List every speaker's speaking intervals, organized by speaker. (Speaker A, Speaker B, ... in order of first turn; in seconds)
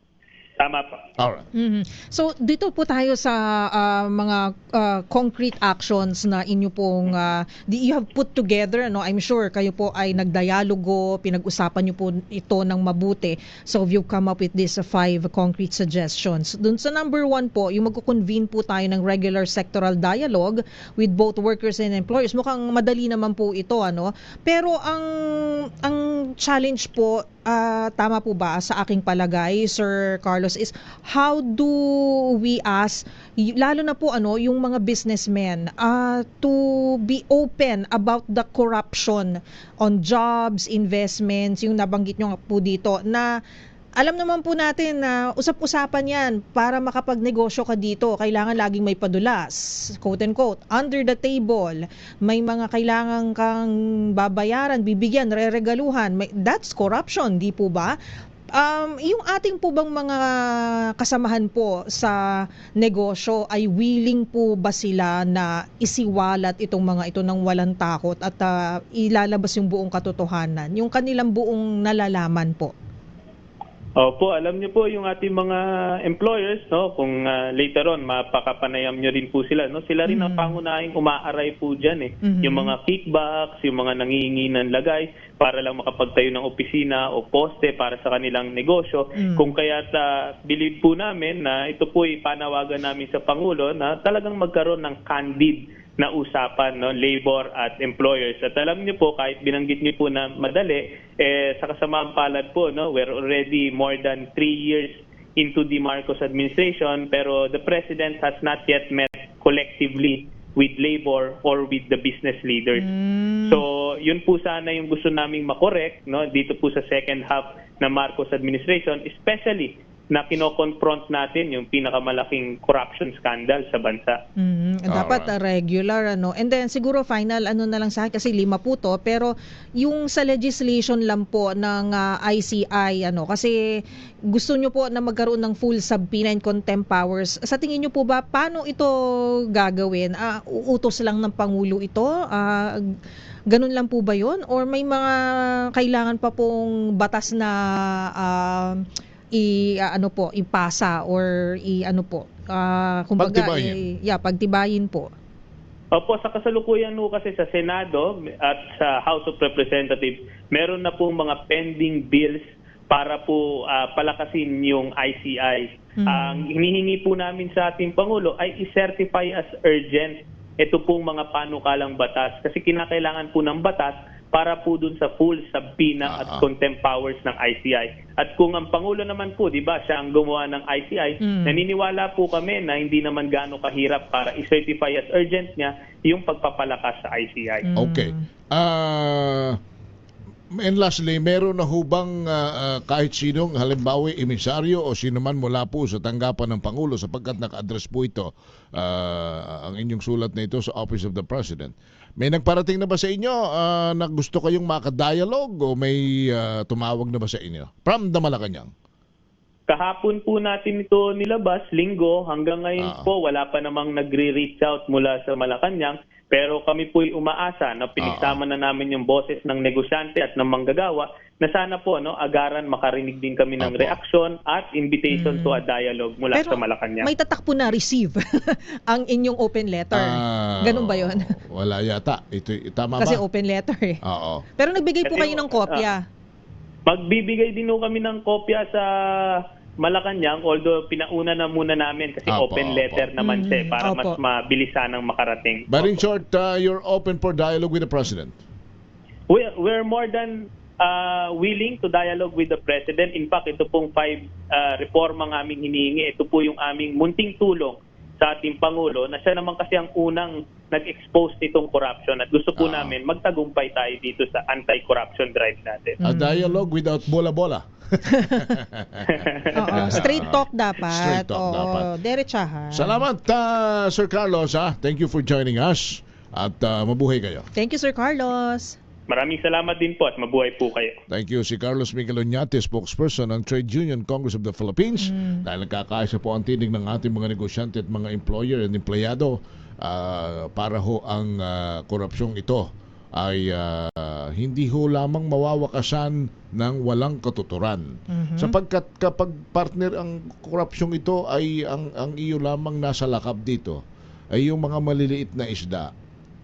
Speaker A: 0.6-1.0, 74.0-112.9, 113.5-124.2, 155.9-187.7, 209.7-227.1, 235.1-235.9, 236.9-246.1, 249.3-266.0, 269.1-270.2, 279.1-280.9
Speaker B: 1.2-1.5, 124.9-125.3, 153.2-153.8, 176.1-176.5, 187.8-189.6, 190.6-208.7, 212.8-213.1, 218.0-218.4, 223.6-224.0, 229.9-233.2, 234.0-234.4, 242.3-243.1, 245.7-248.4, 262.6-263.0, 266.0-271.9, 272.7-277.5, 281.1-303.8, 304.4-305.9
Speaker C: 1.5-43.3, 44.0-58.0, 58.5-72.7, 80.1-80.6, 82.2-82.8, 89.2-89.5, 112.8-113.6, 124.4-138.9, 139.5-142.8, 143.5-145.1, 145.7-148.8, 149.3-155.1, 166.0-166.5, 181.2-181.6, 187.7-188.2, 225.1-225.6, 226.3-231.3, 233.0-234.0, 234.6-236.0, 243.2-244.2, 266.0-266.7, 268.2-268.5, 269.6-273.0, 277.6-278.8, 285.1-285.4, 298.1-298.6